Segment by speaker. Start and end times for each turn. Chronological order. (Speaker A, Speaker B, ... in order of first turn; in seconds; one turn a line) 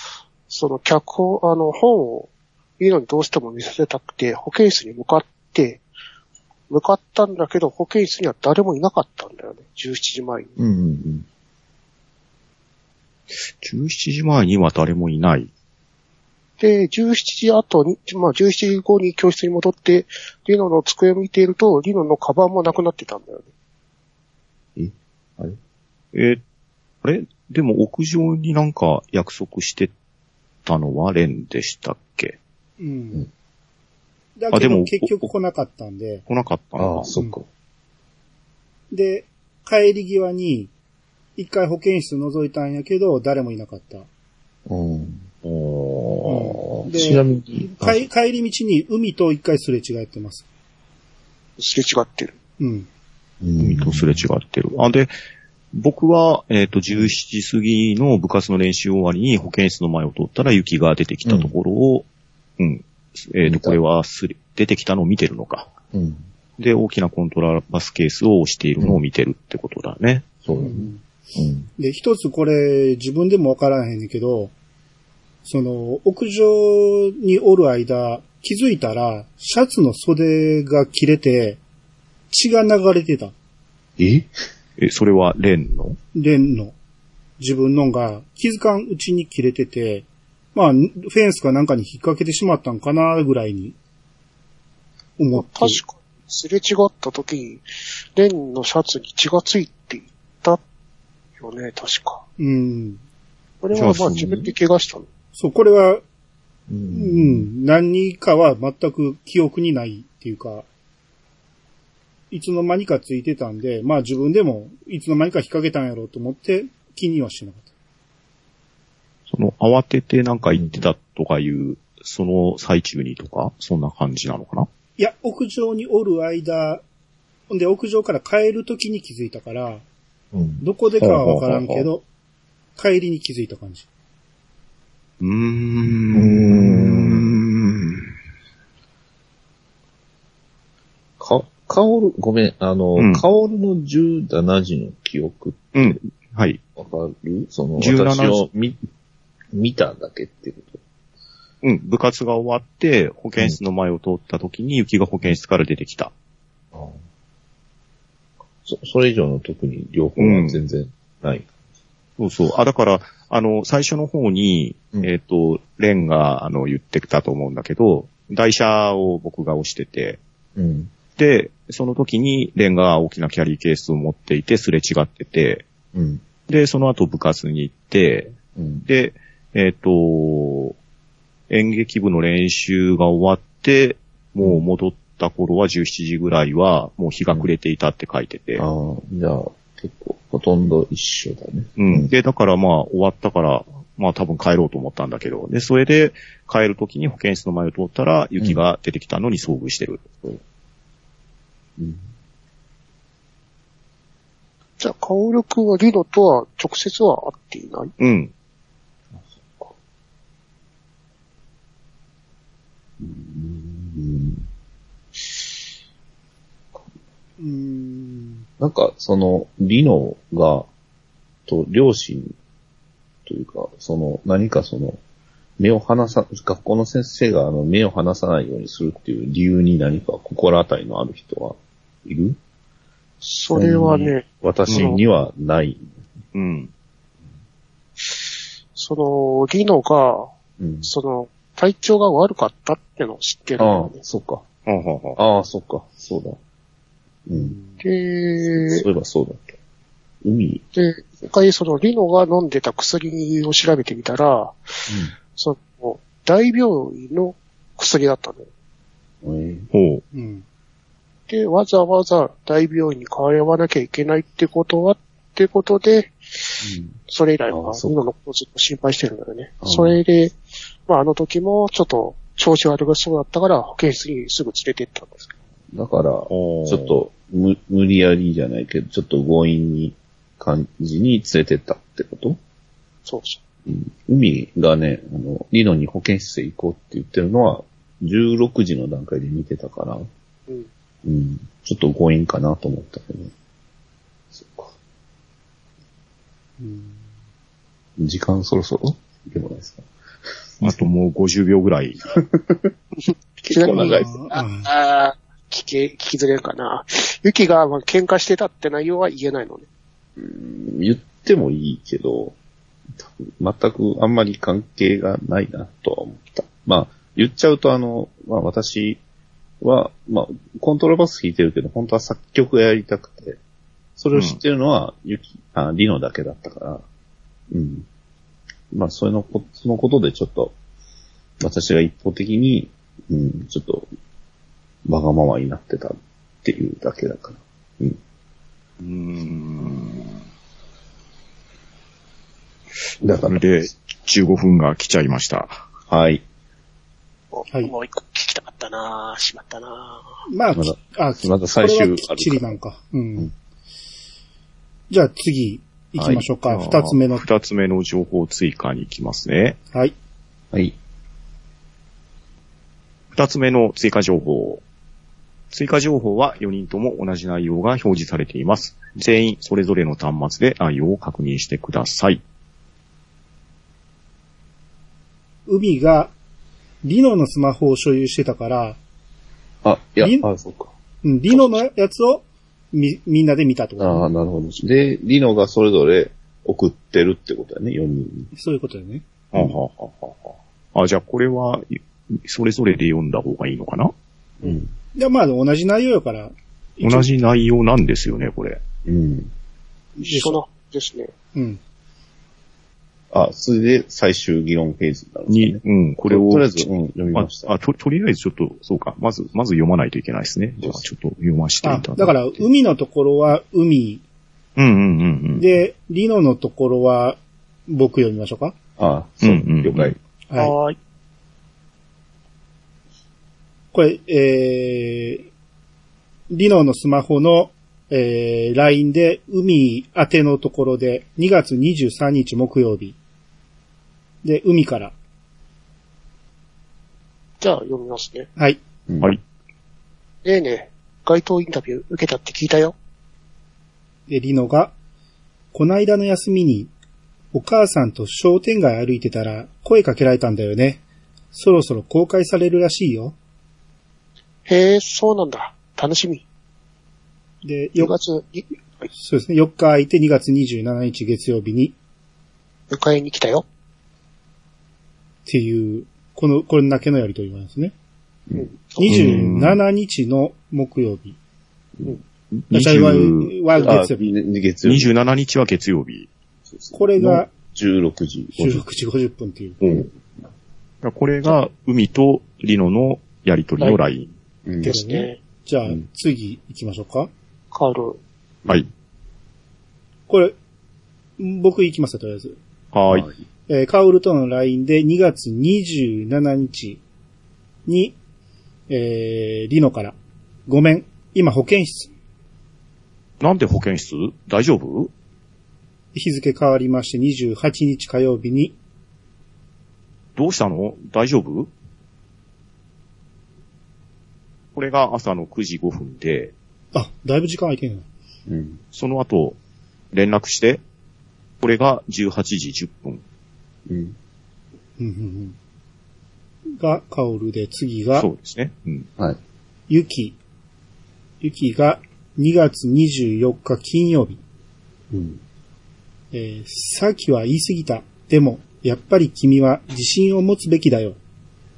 Speaker A: 0.5-5.8
Speaker A: 6.7-10.6
Speaker B: 10.6-11.3
Speaker C: 13.6-15.5
Speaker A: 16.6-23.5
Speaker B: 24.8-25.6
Speaker C: 26.1-26.4
Speaker C: 27.0-29.9
Speaker C: 30.6-32.4
Speaker D: 32.8-33.2
Speaker D: 34.4-36.2
Speaker C: 34.5-35.3
Speaker C: 36.3-37.1
Speaker B: 36.8-37.5
Speaker D: 38.9-40.7
Speaker D: 41.4-44.1
Speaker B: 44.7-45.3
Speaker C: 45.4-46.4
Speaker D: 46.3-50.5
Speaker B: 46.6-48.1
Speaker A: 51.6-52.4
Speaker D: 52.6-52.9
Speaker B: 53.4-54.2
Speaker C: 53.6-55.1
Speaker C: 55.7-62.1
Speaker B: 56.9-57.1
Speaker B: 61.2-61.5
Speaker C: 62.6-65.7
Speaker B: 63.5-63.8
Speaker B: 65.9-66.2
Speaker C: 66.6-70.3
Speaker B: 70.5-71.7
Speaker D: 70.5-71.0
Speaker D: 71.8-74.5
Speaker D: 75.5-81.6
Speaker D: 82.3-83.3
Speaker B: 84.0-84.3
Speaker C: 84.8-86.0
Speaker D: 86.2-86.8
Speaker D: 87.4-93.8
Speaker D: 95.2-95.8
Speaker A: 95.3-100.6
Speaker A: 101.4-102.2
Speaker D: 102.4-103.0
Speaker A: 103.6-105.1
Speaker C: 103.7-104.5
Speaker D: 105.4-106.0
Speaker B: 106.7-107.5
Speaker D: 106.9-110.7
Speaker D: 112.3-117.7
Speaker C: 119.3-124.7
Speaker B: 120.5-120.9
Speaker D: 125.0-126.8
Speaker D: 127.5-129.8
Speaker B: 130.3-130.6
Speaker D: 130.6-132.1
Speaker C: 131.0-131.9
Speaker D: 132.8-133.9
Speaker C: 135.2-138.1
Speaker B: 136.1-137.3
Speaker B: 141.2-146.0
Speaker C: 143.0-143.2
Speaker C: 145.7-146.6
Speaker B: 146.8-148.8
Speaker C: 147.8-148.5
Speaker B: 149.5-150.8
Speaker C: 151.6-156.1
Speaker B: 156.7-157.0
Speaker B: 158.7-161.5
Speaker C: 160.2-160.6
Speaker C: 162.2-170.2
Speaker B: 170.6-170.9
Speaker C: 171.2-175.7
Speaker B: 175.9-176.2
Speaker C: 176.5-178.3
Speaker B: 178.6-178.8
Speaker C: 178.9-180.8
Speaker C: 181.5-188.7
Speaker B: 188.6-192.1
Speaker C: 191.8-200.1
Speaker B: 201.8-202.1
Speaker A: 204.8-207.9
Speaker C: 208.0-208.3
Speaker B: 209.1-209.7
Speaker B: 213.0-214.5
Speaker D: 217.4-218.5
Speaker B: 218.6-220.7
Speaker B: 221.5-222.3
Speaker B: 223.3-225.0
Speaker B: 225.6-232.4
Speaker A: 233.2-235.0
Speaker B: 233.5-236.0
Speaker C: 234.7-234.9
Speaker C: 236.3-236.7
Speaker A: 238.8-240.3
Speaker B: 240.6-240.9
Speaker A: 240.8-244.0
Speaker B: 243.6-244.4
Speaker C: 244.7-245.2
Speaker B: 245.2-246.4
Speaker B: 247.3-247.6
Speaker D: 247.5-247.8
Speaker A: 247.8-248.8
Speaker B: 248.5-249.6
Speaker B: 250.2-250.6
Speaker A: 250.8-258.5
Speaker B: 254.9-255.1
Speaker B: 259.2-259.7
Speaker C: 259.7-260.0
Speaker D: 260.1-260.4
Speaker A: 261.3-275.4
Speaker B: 266.6-266.9
Speaker B: 267.5-268.0
Speaker B: 269.6-270.0
Speaker B: 275.7-282.4
Speaker C: 276.3-277.0
Speaker A: 283.1-283.4
Speaker B: 283.7-290.1
Speaker B: 291.1-293.3
Speaker B: 294.3-294.7
Speaker D: 296.6-297.0
Speaker B: 298.0-299.9
Speaker C: 300.6-302.1
Speaker B: 302.1-302.7
Speaker B: 303.4-304.1
Speaker A: 303.5-309.7
Speaker D: 303.7-304.7
Speaker B: 310.2-312.4
Speaker B: 313.0-319.0
Speaker B: 319.6-323.4
Speaker B: 324.0-326.8
Speaker C: 324.1-324.4
Speaker B: 327.5-327.9
Speaker B: 328.7-330.6
Speaker B: 331.4-333.9
Speaker B: 334.9-338.0
Speaker C: 338.8-340.2
Speaker B: 343.0-343.7
Speaker C: 343.3-345.6
Speaker B: 345.9-346.2
Speaker A: 347.3-350.1
Speaker D: 350.3-353.3
Speaker B: 350.5-352.6
Speaker D: 354.9-357.2
Speaker B: 356.0-356.3
Speaker C: 356.4-359.6
Speaker C: 363.1-364.6
Speaker C: 365.5-372.2
Speaker D: 375.5-376.1
Speaker D: 376.8-378.8
Speaker B: 379.6-380.7
Speaker D: 380.0-380.3
Speaker D: 381.0-384.1
Speaker B: 383.8-388.3
Speaker D: 388.3-389.1
Speaker C: 389.3-393.9
Speaker B: 394.4-394.7
Speaker D: 394.9-397.1
Speaker C: 396.8-398.6
Speaker B: 398.9-399.3
Speaker A: 400.0-401.1
Speaker D: 400.0-400.4
Speaker D: 401.4-401.6
Speaker B: 403.1-407.5
Speaker C: 405.3-412.2
Speaker D: 411.6-414.0
Speaker C: 414.6-415.5
Speaker D: 415.4-418.6
Speaker B: 418.8-420.0
Speaker C: 419.2-420.0
Speaker D: 420.3-420.6
Speaker A: 420.4-420.8
Speaker D: 423.7-425.3
Speaker D: 426.3-433.0
Speaker D: 434.2-434.9
Speaker A: 437.4-438.3
Speaker B: 438.9-439.2
Speaker A: 440.2-442.8
Speaker D: 444.1-444.8
Speaker D: 445.5-446.7
Speaker D: 447.3-453.2
Speaker A: 454.5-456.2
Speaker D: 457.4-457.9
Speaker A: 457.8-458.9
Speaker D: 458.9-461.8
Speaker A: 462.7-463.4
Speaker D: 465.3-467.7
Speaker A: 468.4-469.1
Speaker D: 468.8-471.2
Speaker C: 468.9-469.6
Speaker C: 472.3-473.3
Speaker D: 472.5-474.1
Speaker B: 473.6-474.9
Speaker C: 474.6-476.1
Speaker B: 476.5-478.6
Speaker D: 476.7-477.3
Speaker D: 478.4-479.6
Speaker C: 479.6-479.9
Speaker C: 480.8-484.1
Speaker B: 484.5-484.7
Speaker A: 484.6-485.2
Speaker D: 484.6-487.1
Speaker A: 487.5-488.0
Speaker D: 490.1-490.4
Speaker D: 491.2-492.4
Speaker C: 492.7-493.1
Speaker D: 493.5-496.8
Speaker D: 497.7-498.0
Speaker D: 498.7-500.0
Speaker D: 500.5-501.9
Speaker C: 503.2-504.9
Speaker D: 505.9-508.6
Speaker C: 510.2-511.5
Speaker C: 514.5-516.3
Speaker D: 516.7-517.9
Speaker B: 518.3-518.6
Speaker C: 518.7-519.4
Speaker C: 519.9-520.6
Speaker C: 521.4-523.0
Speaker B: 523.7-524.0
Speaker D: 524.8-525.4
Speaker D: 526.6-528.1
Speaker C: 528.0-528.9
Speaker D: 529.7-530.2
Speaker D: 531.2-534.2
Speaker B: 534.9-535.2
Speaker D: 536.1-541.0